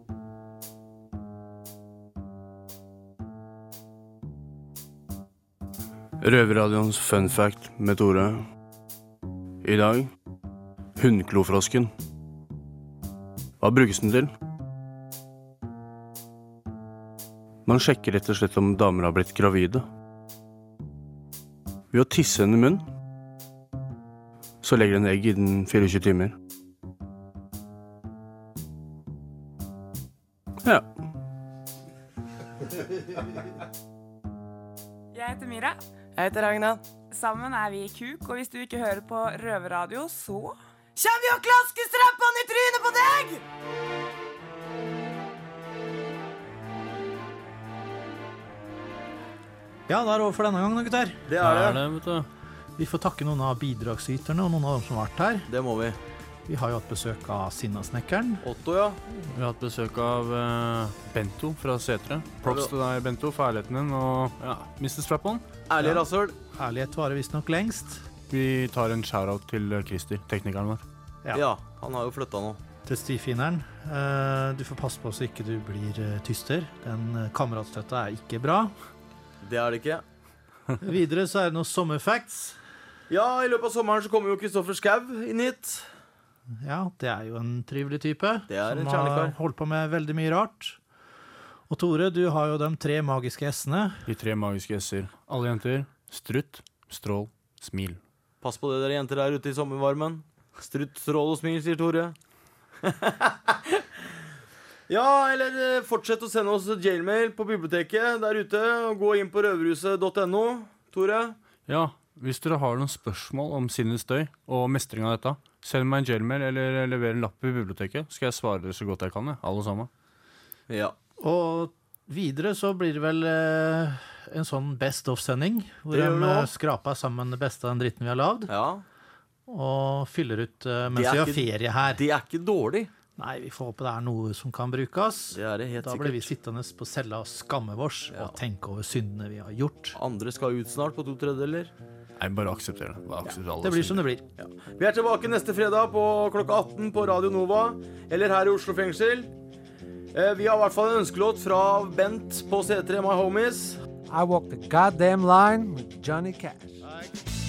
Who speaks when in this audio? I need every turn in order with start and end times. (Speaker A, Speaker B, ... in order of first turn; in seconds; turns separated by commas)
Speaker A: 6.2-8.4, Speaker A: 9.6-10.1, Speaker A: 11.0-11.9, Speaker A: 13.6-14.3, Speaker A: 17.6-19.8, Speaker A: 21.9-22.8, Speaker A: 24.6-26.3, Speaker A: 30.6-30.9, Speaker B: 35.1-43.4, Speaker C: 49.9-51.2, Speaker D: 51.3-51.8, Speaker A: 51.4-52.3, Speaker C: 52.8-55.5, Speaker D: 55.5-56.0, Speaker C: 56.5-58.4, Speaker D: 58.4-59.0, Speaker A: 59.3-65.4, Speaker D: 62.4-62.7, Speaker D: 65.7-66.3, Speaker C: 66.5-68.0, Speaker A: 68.3-70.8, Speaker D: 71.3-72.6, Speaker C: 72.8-78.7, Speaker D: 79.4-80.0, Speaker C: 80.8-82.6, Speaker D: 83.1-85.9, Speaker C: 86.6-90.8, Speaker D: 88.5-89.3, Speaker C: 91.7-94.0, Speaker A: 94.0-98.0, Speaker D: 98.4-102.1, Speaker D: 102.8-103.8, Speaker D: 104.9-111.4, Speaker A: 111.7-119.9, Speaker D: 120.7-121.0, Speaker C: 121.2-128.5, Speaker D: 125.9-126.5, Speaker D: 128.5-128.8, Speaker C: 129.5-132.0, Speaker D: 130.9-132.9, Speaker C: 133.2-139.9, Speaker D: 135.3-136.3, Speaker D: 138.1-138.4, Speaker D: 139.9-141.7, Speaker A: 142.2-144.1, Speaker C: 143.6-144.2, Speaker D: 144.4-149.3, Speaker D: 150.1-153.8, Speaker E: 154.1-156.8